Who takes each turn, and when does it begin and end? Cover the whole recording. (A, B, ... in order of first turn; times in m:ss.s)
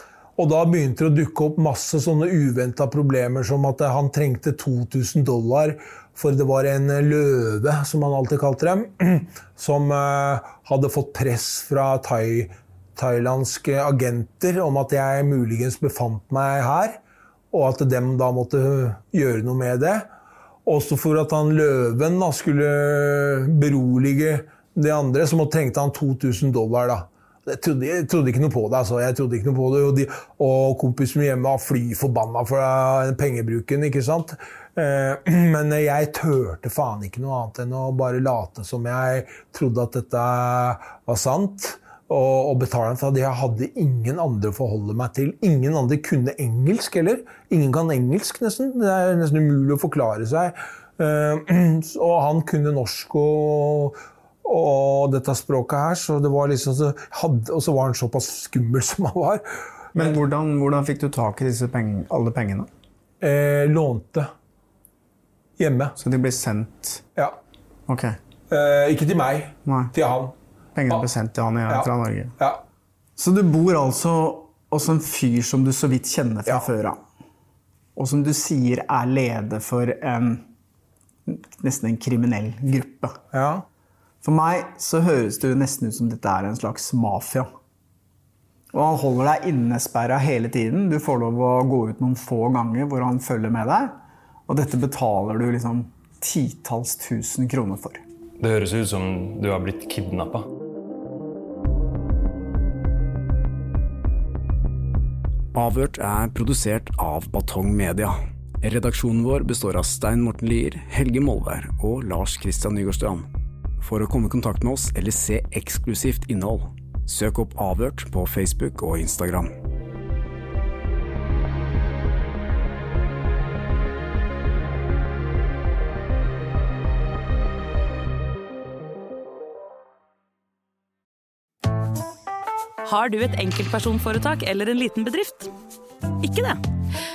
0:00.4-0:20.1 A
0:20.6-1:00.2 A
1:00.0-1:02.7 B
1:03.2-1:04.3 A
1:05.6-1:06.0 A
1:06.0-1:07.0 B
1:07.9-1:08.2 B
1:08.5-1:10.4 A
1:09.7-1:09.9 B
1:10.8-1:12.4 B
1:11.7-1:12.6 A
1:13.2-1:17.0 B
1:18.0-1:20.5 B
1:21.3-1:23.2 B
1:23.3-1:23.6 A
1:24.2-1:27.5 B
1:28.7-1:34.0 B
1:34.5-1:38.0 B
1:38.4-1:40.5 C
1:45.6-1:53.3 D
1:53.8-1:59.5 D
2:12.8-2:15.5 E
2:16.2-2:16.6 E